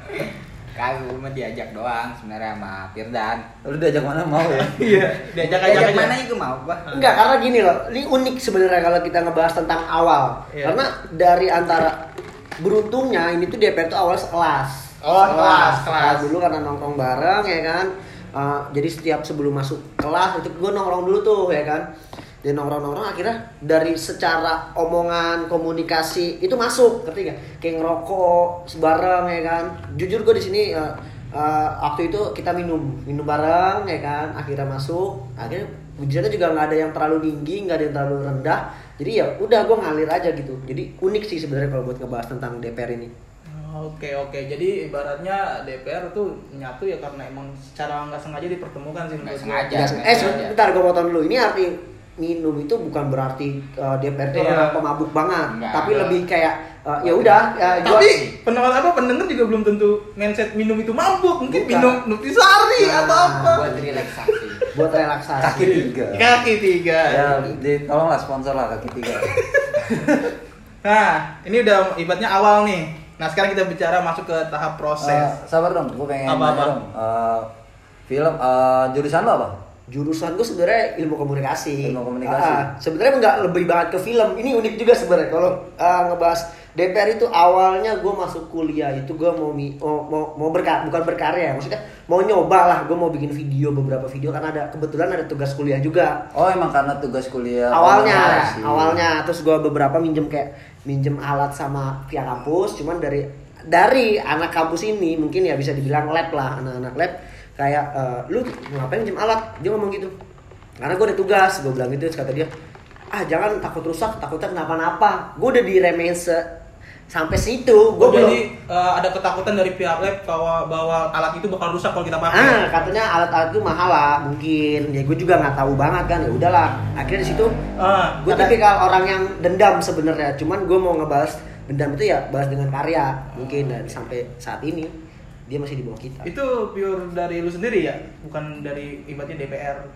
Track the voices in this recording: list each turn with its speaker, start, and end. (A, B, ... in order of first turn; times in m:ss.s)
0:00.7-0:03.4 A
0:03.6-0:05.1 B
0:04.5-0:06.2 C
0:05.4-0:07.0 A
0:06.9-0:12.0 D
0:10.5-0:10.8 C
0:12.6-0:21.9 D
0:15.0-0:16.3 C
0:22.4-0:43.1 D
0:43.5-0:50.4 C
0:49.2-0:50.5 A
0:49.7-0:58.2 D
0:54.3-0:54.8 C
0:55.5-0:56.2 A
0:57.0-0:58.3 A
0:57.8-1:04.7 C
1:01.5-1:02.0 D
1:02.8-1:04.0 D
1:03.4-1:04.6 A
1:04.7-1:05.9 D
1:05.4-1:06.4 B
1:06.1-1:07.5 C
1:07.0-1:10.3 B
1:10.8-1:15.3 C
1:15.0-1:17.5 B
1:16.2-1:16.7 C
1:18.1-1:19.6 B
1:19.9-1:36.2 D
1:21.8-1:22.7 B
1:36.3-1:39.0 B
1:37.7-1:50.1 D
1:38.0-1:38.5 A
1:50.8-1:52.5 D
1:53.1-1:56.5 D
1:57.1-1:58.4 D
1:58.0-2:02.9 C
2:02.3-2:07.6 D
2:07.8-2:08.5 C
2:08.2-2:14.9 D
2:13.3-2:13.8 C
2:15.5-2:16.3 D
2:16.2-2:19.9 C